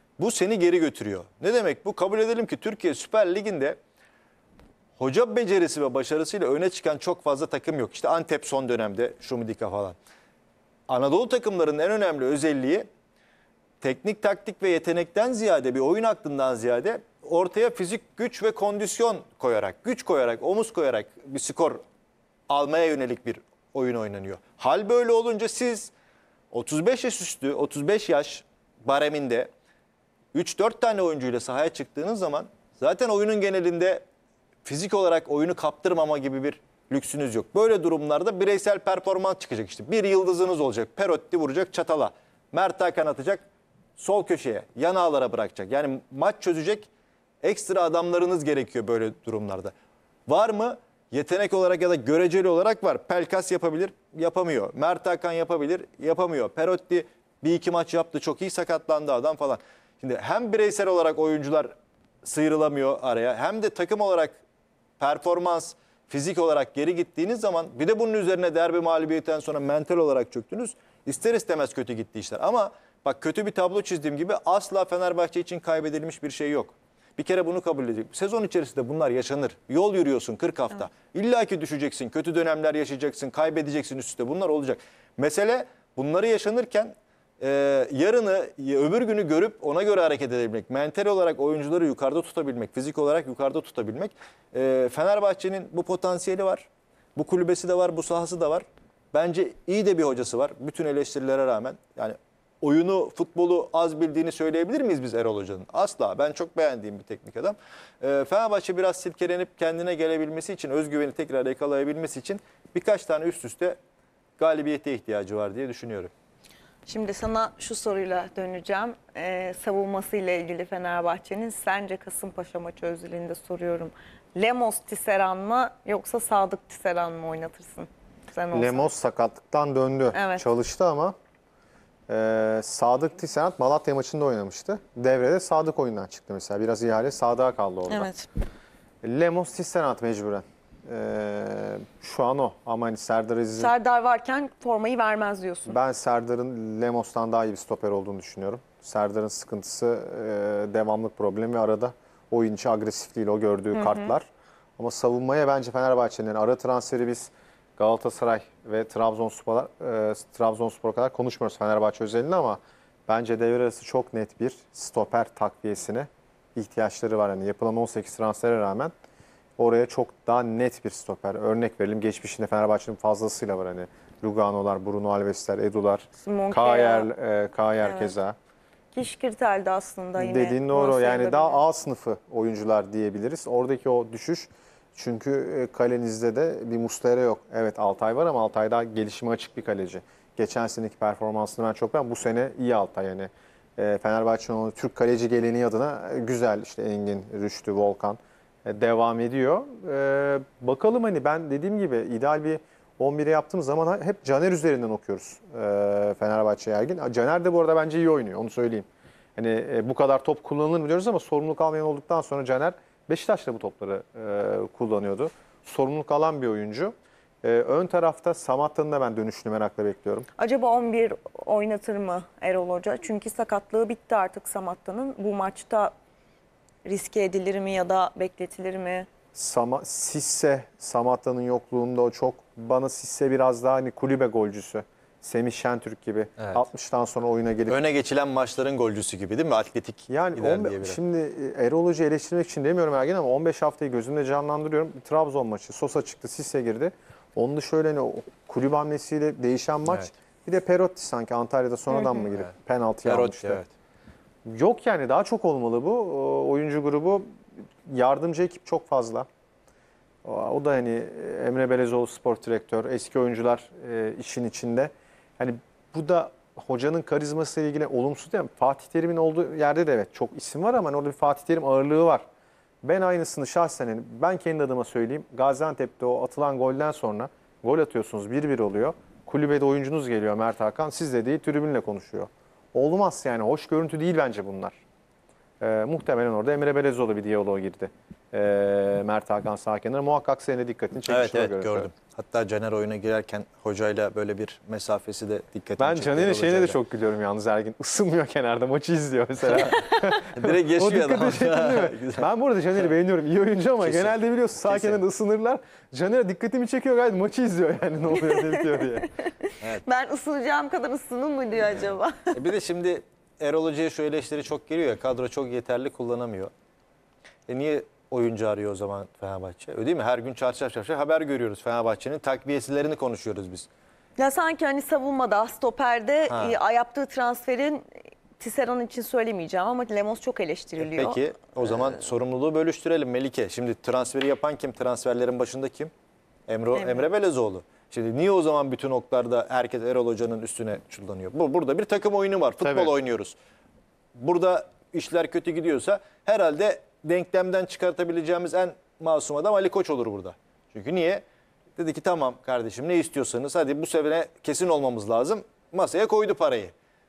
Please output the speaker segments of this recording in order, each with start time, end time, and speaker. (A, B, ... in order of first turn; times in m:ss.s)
0:00.2-0:03.8 A
0:05.0-0:10.0 A
0:10.9-0:12.9 A
0:13.8-0:21.8 A
0:22.5-0:25.9 A
0:26.5-0:29.5 A
0:30.3-0:34.0 A
0:34.6-0:43.4 A
0:44.0-0:46.9 A
0:47.4-0:49.7 A
0:50.3-1:01.7 A
1:02.2-1:04.4 A
1:05.0-1:53.8 A
1:54.4-1:56.1 A
1:56.9-2:08.9 B
2:08.5-2:11.1 C
2:10.1-2:10.4 B
2:12.1-2:18.1 C
2:17.9-2:18.3 B
2:19.0-2:23.7 C
2:23.6-2:25.8 B
2:25.7-2:34.2 C
2:33.7-2:34.1 B
2:34.8-2:48.9 C
2:49.6-2:58.4 C
2:56.2-2:57.1 B
2:57.8-2:58.1 B
2:58.9-3:01.6 B
3:00.2-3:40.3 C
3:40.4-3:45.9 B
3:46.8-3:49.1 B
3:49.3-3:57.8 C
3:57.7-4:01.0 A
4:00.1-4:13.6 C
4:11.9-4:12.2 B
4:13.0-4:13.7 A
4:14.4-4:17.2 C
4:17.8-4:19.2 C
4:20.2-4:32.2 C
4:32.8-4:44.8 C
4:45.6-4:51.9 C
4:51.1-4:56.8 A
4:55.8-5:09.1 C
5:00.3-5:02.3 A
5:03.8-5:05.0 A
5:09.4-5:12.4 B
5:12.3-5:16.5 A
5:17.5-5:23.7 A
5:24.2-5:27.8 B
5:26.3-5:26.6 A
5:28.4-5:31.2 B
5:30.8-5:35.9 A
5:36.5-5:43.4 A
5:36.7-5:37.1 B
5:44.2-5:51.2 A
5:51.8-5:56.7 A